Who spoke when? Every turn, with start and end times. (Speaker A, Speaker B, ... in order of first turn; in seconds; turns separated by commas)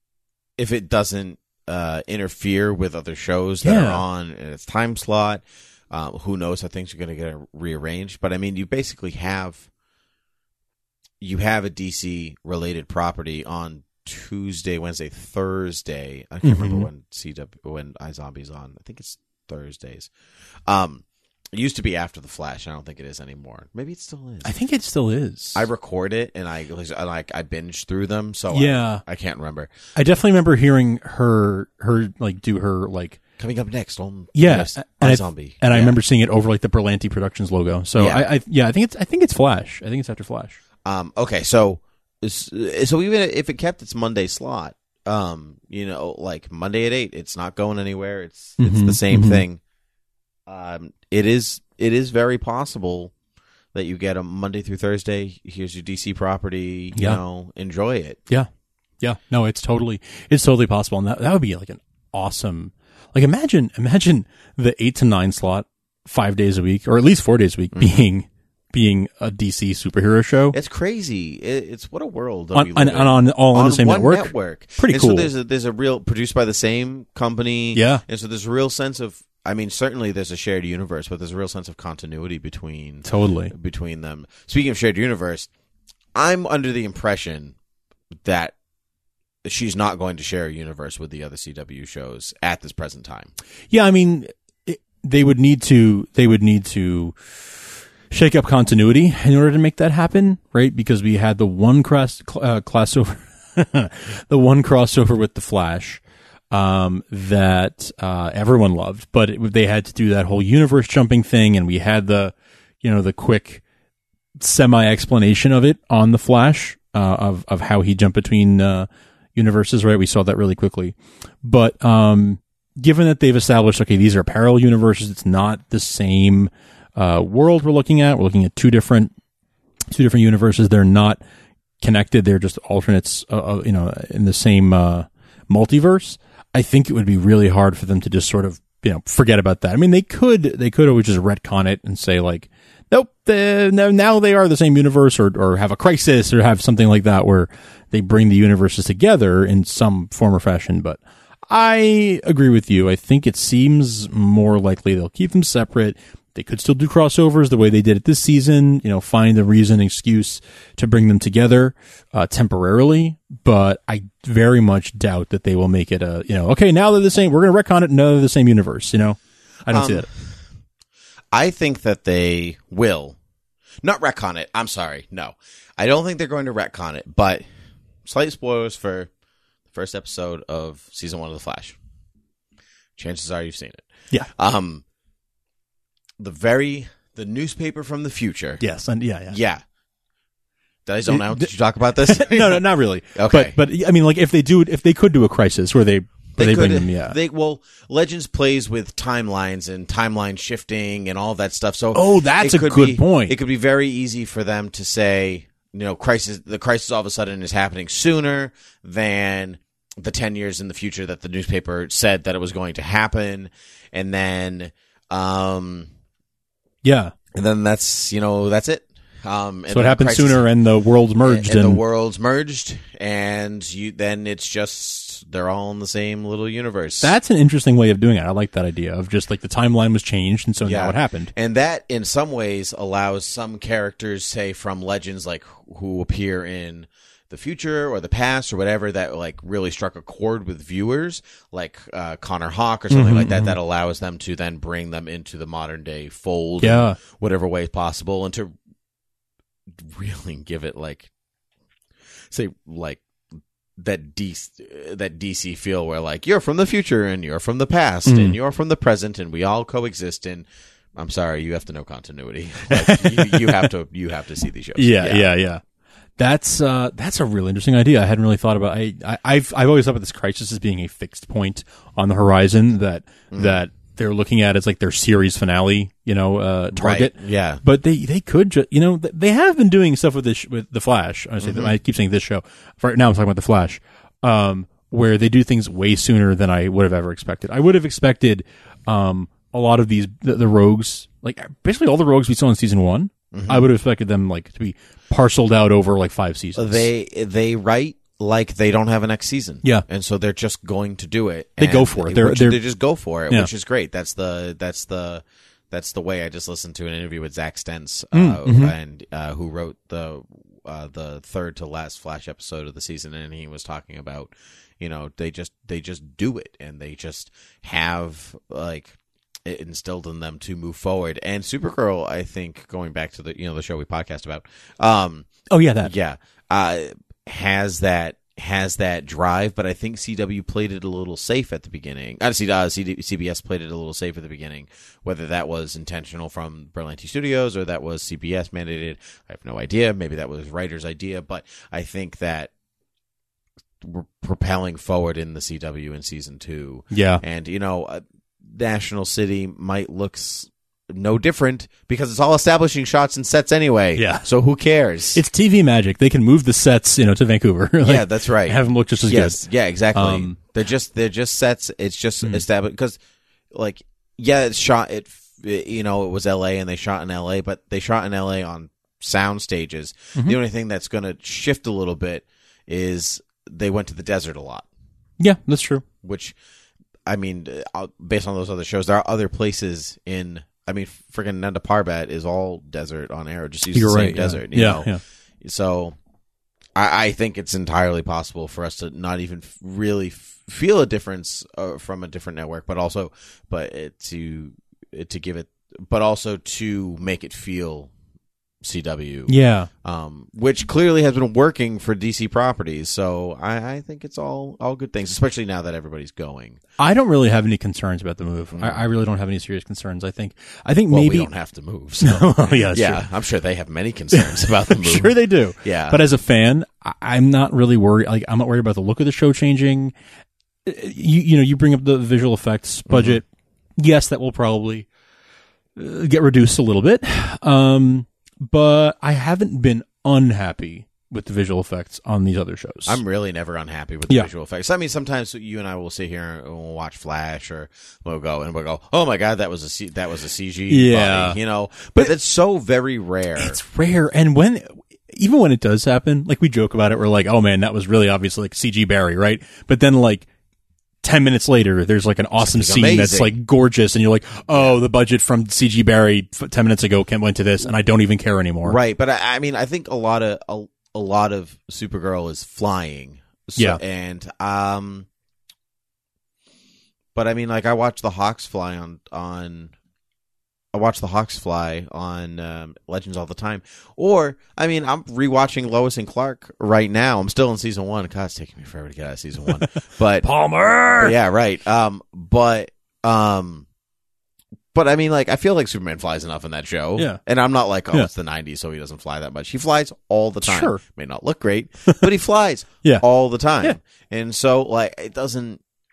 Speaker A: 0.6-9.7, Speaker B: 3.6-4.0, Speaker A: 11.2-20.1, Speaker B: 16.4-16.9, Speaker A: 20.7-24.5, Speaker B: 24.4-25.7, Speaker A: 25.5-29.7, Speaker B: 28.5-29.0, Speaker B: 29.9-33.2, Speaker A: 33.4-36.0, Speaker B: 34.3-40.6, Speaker A: 38.0-38.3, Speaker A: 40.8-49.6, Speaker B: 48.6-49.4, Speaker A: 50.5-53.1, Speaker A: 53.7-58.2, Speaker B: 56.9-57.2, Speaker B: 59.0-70.5, Speaker A: 67.7-68.0, Speaker A: 70.5-85.5, Speaker B: 72.5-75.3, Speaker B: 77.7-78.0, Speaker B: 83.0-83.5, Speaker A: 86.1-87.5, Speaker A: 88.2-88.5, Speaker A: 89.4-93.3, Speaker B: 93.7-113.6, Speaker B: 114.4-129.1, Speaker B: 129.9-131.2, Speaker B: 131.8-170.1, Speaker A: 169.7-170.3, Speaker A: 171.3-173.2, Speaker A: 173.8-177.4, Speaker A: 178.0-179.1, Speaker A: 179.7-181.8, Speaker A: 183.0-184.8, Speaker A: 186.2-188.6, Speaker B: 188.6-189.4, Speaker A: 189.3-189.6, Speaker A: 190.8-192.6, Speaker B: 191.1-191.5, Speaker B: 192.0-197.2, Speaker A: 193.1-193.6, Speaker A: 196.3-215.9, Speaker B: 201.9-203.3, Speaker B: 216.8-217.1, Speaker A: 217.3-220.4, Speaker B: 219.7-221.8, Speaker A: 221.2-227.2, Speaker B: 227.0-231.3, Speaker A: 230.6-248.5, Speaker B: 242.9-243.6, Speaker B: 246.6-247.0, Speaker A: 249.7-251.1, Speaker A: 252.3-253.0, Speaker A: 253.8-265.3, Speaker B: 258.1-258.3, Speaker B: 262.7-263.7, Speaker B: 264.8-265.6, Speaker B: 266.2-296.9, Speaker A: 273.3-273.6, Speaker A: 276.8-277.6, Speaker A: 281.4-281.7, Speaker A: 293.3-293.7, Speaker A: 296.6-325.3, Speaker B: 301.6-302.6, Speaker B: 308.1-308.7, Speaker B: 325.5-325.9, Speaker A: 325.8-342.5, Speaker A: 343.8-355.2, Speaker B: 346.9-347.2, Speaker B: 353.9-354.3, Speaker B: 355.1-360.4, Speaker A: 357.8-363.0, Speaker A: 363.5-374.7, Speaker B: 375.2-375.8, Speaker A: 376.0-376.4, Speaker A: 377.1-384.9, Speaker B: 383.7-385.0, Speaker A: 385.4-385.9, Speaker A: 386.8-397.9, Speaker A: 398.6-406.6, Speaker B: 399.3-399.7, Speaker B: 406.8-411.3, Speaker A: 408.5-408.8, Speaker A: 410.9-416.0, Speaker B: 412.0-413.0, Speaker B: 414.1-419.9, Speaker B: 420.6-423.3, Speaker A: 422.9-423.2, Speaker B: 423.8-424.9, Speaker B: 425.8-433.0, Speaker A: 432.9-443.6, Speaker B: 440.7-441.4, Speaker B: 443.4-450.3, Speaker B: 451.0-458.8, Speaker A: 452.4-453.3, Speaker A: 454.5-454.8, Speaker A: 458.6-465.1, Speaker A: 467.1-469.7, Speaker A: 470.7-480.3, Speaker B: 479.6-481.1, Speaker A: 480.9-483.7, Speaker A: 484.7-495.6, Speaker B: 490.4-490.8